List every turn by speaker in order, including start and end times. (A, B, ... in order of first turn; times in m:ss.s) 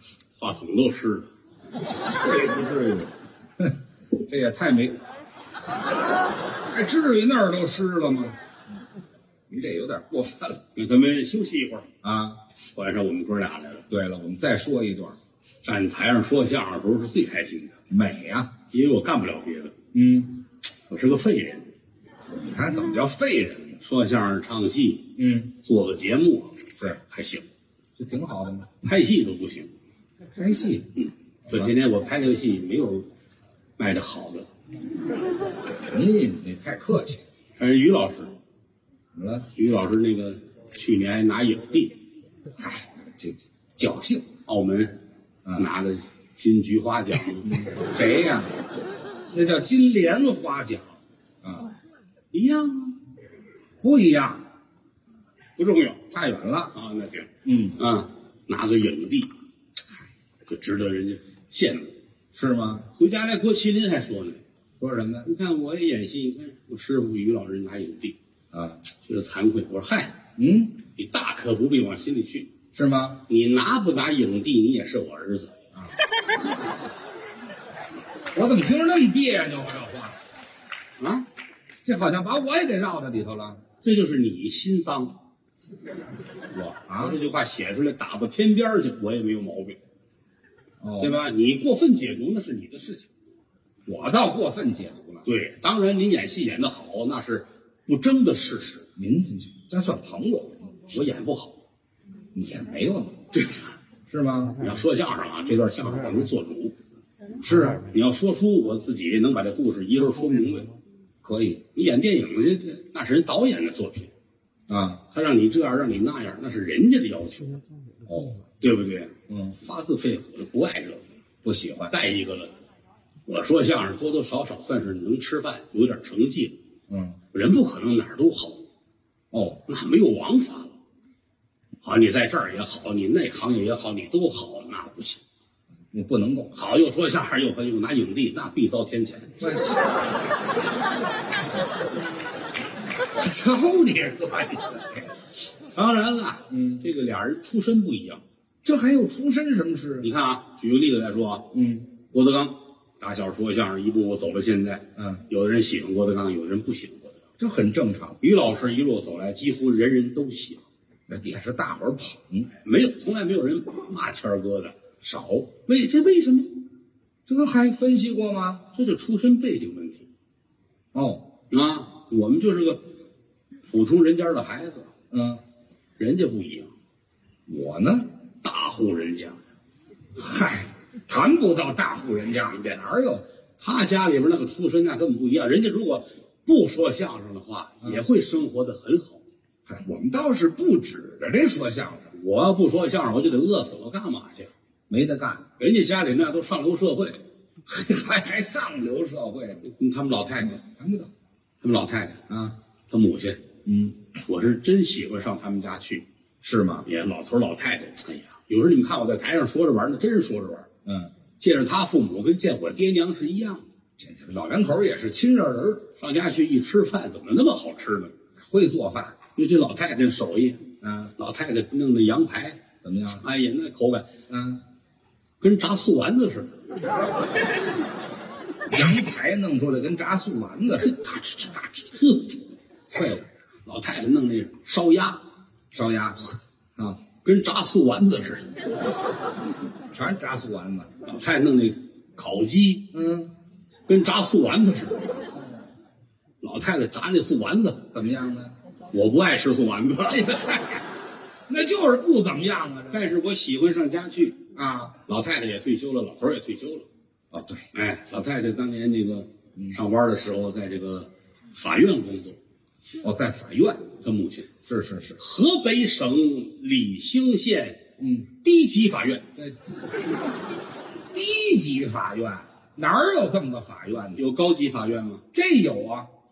0:00.4-0:01.3 A
0:02.0-0:05.0 B
0:06.7-0:08.4 B
0:09.5-0:10.6 B
0:10.7-0:11.9 A
0:12.0-0:12.4 B
0:12.7-0:13.9 A
0:13.9-0:15.2 B
0:15.6-0:17.8 A
0:17.9-0:18.5 B
0:18.7-0:19.7 A
0:19.9-0:20.4 B
0:20.9-0:21.7 A
0:22.4-0:23.8 B
0:23.8-0:27.4 A
0:25.2-0:25.5 B
0:28.0-0:28.7 B
0:28.8-0:29.7 A
0:30.3-0:30.9 B
0:31.0-0:33.0 A
0:33.8-0:34.5 A
0:35.8-0:37.2 B
0:37.6-0:38.3 A
0:39.1-0:39.5 B
0:39.5-0:42.0 A
0:42.6-0:44.3 B
0:44.4-0:45.0 A
0:45.5-0:47.6 A
0:47.4-0:48.6 B
0:49.3-0:51.7 B
0:52.3-0:53.0 A
0:53.8-0:54.4 B
0:55.6-0:56.0 A
0:56.1-0:56.7 B
0:56.7-0:59.3 A
0:57.4-0:57.8 B
1:00.5-1:01.9 A
1:02.3-1:02.9 B
1:03.0-1:04.4 A
1:04.8-1:05.3 B
1:05.2-1:08.2 A
1:08.5-1:08.8 B
1:09.0-1:10.2 A
1:10.4-1:10.8 B
1:10.9-1:12.5 A
1:12.7-1:13.2 B
1:13.3-1:15.5 A
1:18.3-1:20.2 B
1:21.0-1:21.3 A
1:21.8-1:23.6 B
1:23.8-1:25.2 A
1:26.5-1:27.2 B
1:27.0-1:29.8 A
1:30.8-1:31.2 B
1:31.0-1:33.1 A
1:33.8-1:35.2 B
1:35.2-1:38.8 A
1:39.0-1:40.7 B
1:40.9-1:41.6 A
1:42.3-1:43.2 B
1:43.3-1:43.7 A
1:44.1-1:44.6 B
1:44.6-1:46.7 A
1:47.4-1:47.8 B
1:47.8-1:50.7 A
1:51.2-1:51.6 B
1:51.7-1:54.1 A
1:54.7-1:55.0 B
1:55.1-1:57.6 A
1:58.0-1:58.4 B
1:58.6-2:01.0 A
1:59.3-1:59.6 B
2:01.4-2:01.9 B
2:01.9-2:02.5 A
2:03.2-2:06.6 A
2:06.9-2:07.2 B
2:07.3-2:08.6 A
2:09.3-2:09.6 B
2:09.7-2:10.8 A
2:11.8-2:15.2 A
2:15.9-2:16.5 B
2:16.5-2:19.3 A
2:19.4-2:19.9 B
2:23.1-2:25.1 B
2:25.7-2:28.2 A
2:26.5-2:26.8 B
2:28.6-2:30.1 B
2:30.0-2:31.5 A
2:31.5-2:31.9 B
2:32.1-2:37.2 A
2:35.0-2:35.2 B
2:37.4-2:38.2 B
2:38.2-2:40.6 A
2:41.1-2:42.5 B
2:42.6-2:44.8 A
2:45.0-2:45.5 B
2:45.6-2:46.5 A
2:47.3-2:48.7 B
2:48.7-2:50.1 A
2:50.9-2:51.3 B
2:51.5-2:52.8 A
2:53.7-2:54.9 A
2:55.1-2:55.4 B
2:56.0-2:56.7 A
2:57.5-2:58.1 B
2:58.4-2:59.4 A
3:00.1-3:03.2 B
3:03.6-3:09.2 A
3:09.6-3:12.1 B
3:12.1-3:14.5 A
3:14.9-3:15.5 B
3:15.6-3:17.2 A
3:17.6-3:19.7 B
3:19.6-3:20.6 A
3:20.5-3:21.1 B
3:21.6-3:22.2 A
3:22.3-3:22.6 B
3:22.9-3:23.4 A
3:23.6-3:24.0 B
3:24.1-3:26.0 A
3:26.4-3:26.8 B
3:26.8-3:30.7 A
3:30.8-3:31.1 B
3:31.4-3:33.6 A
3:34.0-3:35.9 B
3:36.0-3:38.1 A
3:38.4-3:39.2 B
3:39.3-3:40.6 A
3:40.8-3:41.1 B
3:41.2-3:42.6 A
3:42.8-3:43.2 B
3:43.1-3:44.1 A
3:44.3-3:44.6 B
3:45.4-3:46.6 A
3:48.7-3:51.0 B
3:50.8-3:52.4 A
3:52.9-3:53.3 B
3:53.6-3:55.2 A
3:55.7-3:57.0 B
3:57.2-3:58.5 A
3:59.9-4:00.9 B
4:01.0-4:02.9 A
4:02.9-4:03.3 B
4:03.9-4:05.1 A
4:06.4-4:07.9 A
4:07.9-4:08.6 B
4:08.9-4:10.4 A
4:10.1-4:10.8 B
4:11.5-4:13.1 B
4:12.9-4:14.4 A
4:14.5-4:15.0 B
4:15.0-4:16.9 A
4:17.3-4:17.7 B
4:17.7-4:22.4 A
4:23.0-4:23.9 B
4:24.0-4:24.5 A
4:24.6-4:25.2 B
4:25.2-4:27.8 A
4:28.0-4:28.3 B
4:28.4-4:29.3 A
4:29.4-4:29.6 B
4:31.1-4:34.2 B
4:34.2-4:35.2 A
4:35.3-4:36.1 B